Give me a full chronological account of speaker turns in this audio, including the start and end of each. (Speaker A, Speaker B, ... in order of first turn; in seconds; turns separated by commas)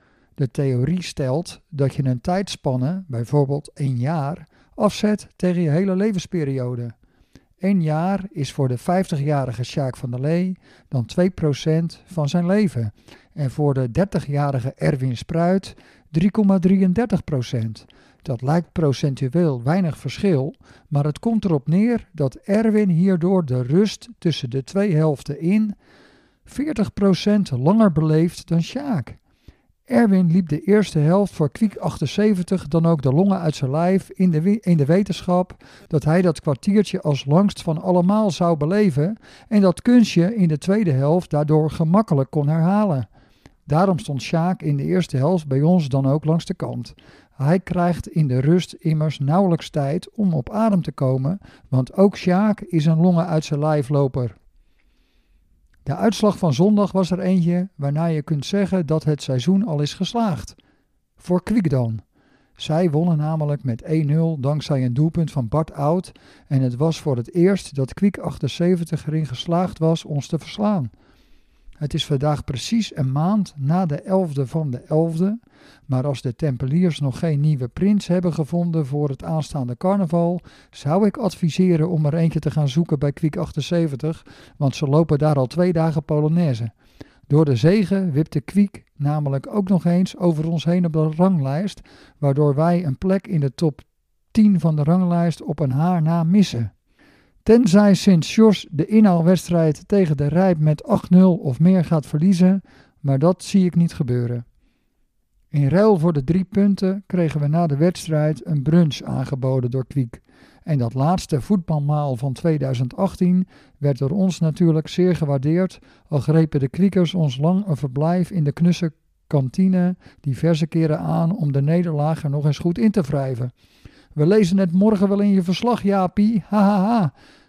Speaker A: 0.4-6.9, Speaker A: 7.6-25.8, Speaker A: 26.5-29.2, Speaker A: 29.9-43.1, Speaker A: 43.7-54.4, Speaker A: 55.8-60.5, Speaker A: 61.2-62.0, Speaker A: 62.6-70.9, Speaker A: 71.8-86.7, Speaker A: 87.3-96.7, Speaker A: 97.4-104.4, Speaker A: 105.5-123.5, Speaker A: 124.1-127.1